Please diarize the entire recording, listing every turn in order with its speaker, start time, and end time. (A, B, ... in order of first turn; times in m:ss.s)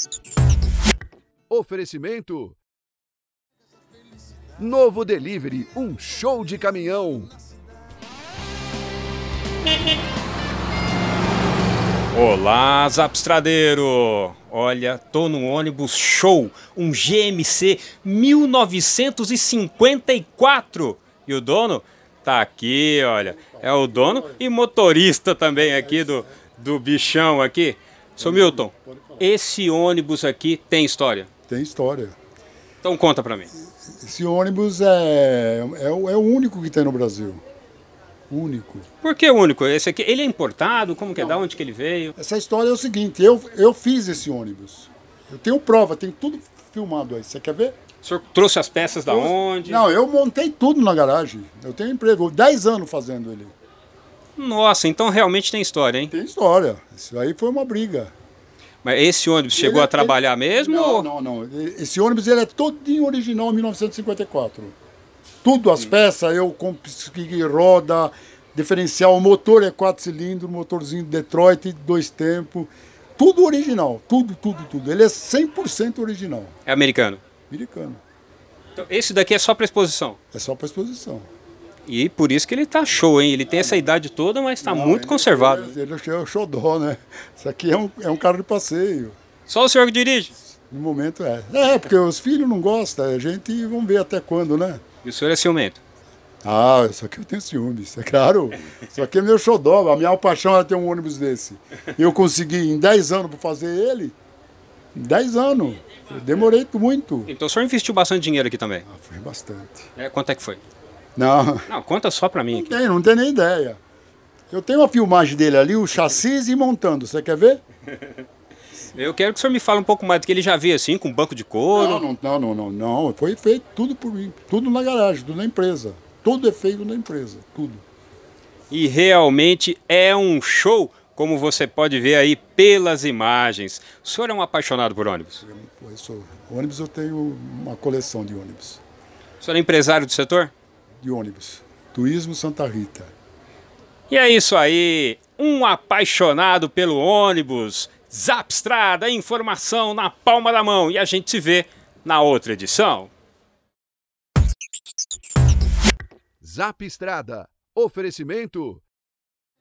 0:01.5-0:02.6 A
0:04.6-0:07.3 A
0:12.1-0:31.3 B
0:23.2-0:24.4 C
0:25.5-0:26.3 C
0:28.2-0:29.3 C
0:31.5-0:32.2 C
0:32.8-0:33.5 B
0:34.0-0:37.4 C
0:38.3-0:38.9 C
0:39.0-0:42.1 B
0:42.2-0:47.8 C
0:48.0-0:49.8 B
0:49.1-0:53.5 C
0:54.4-0:56.1 B
0:56.1-0:58.1 C
0:58.8-1:01.1 B
0:59.5-1:04.8 C
1:05.4-1:16.5 C
1:16.6-1:17.2 B
1:17.5-1:18.0 C
1:18.8-1:20.2 B
1:20.3-1:21.3 C
1:21.8-1:25.7 B
1:23.5-1:23.9 C
1:24.6-1:29.2 C
1:29.4-1:30.3 B
1:30.7-1:34.8 C
1:35.0-1:35.8 B
1:36.4-1:44.2 C
1:44.9-1:47.3 C
1:47.3-1:48.8 B
1:48.8-1:49.9 C
1:50.0-1:50.6 B
1:51.2-1:51.7 C
1:51.7-1:52.8 B
1:52.5-1:53.8 C
1:54.5-1:57.6 C
1:58.9-2:02.0 B
2:01.7-2:07.8 C
2:08.7-2:15.4 B
2:15.4-2:18.8 C
2:19.4-2:20.5 B
2:21.0-2:23.1 C
2:24.1-2:33.1 B
2:36.4-2:38.8 A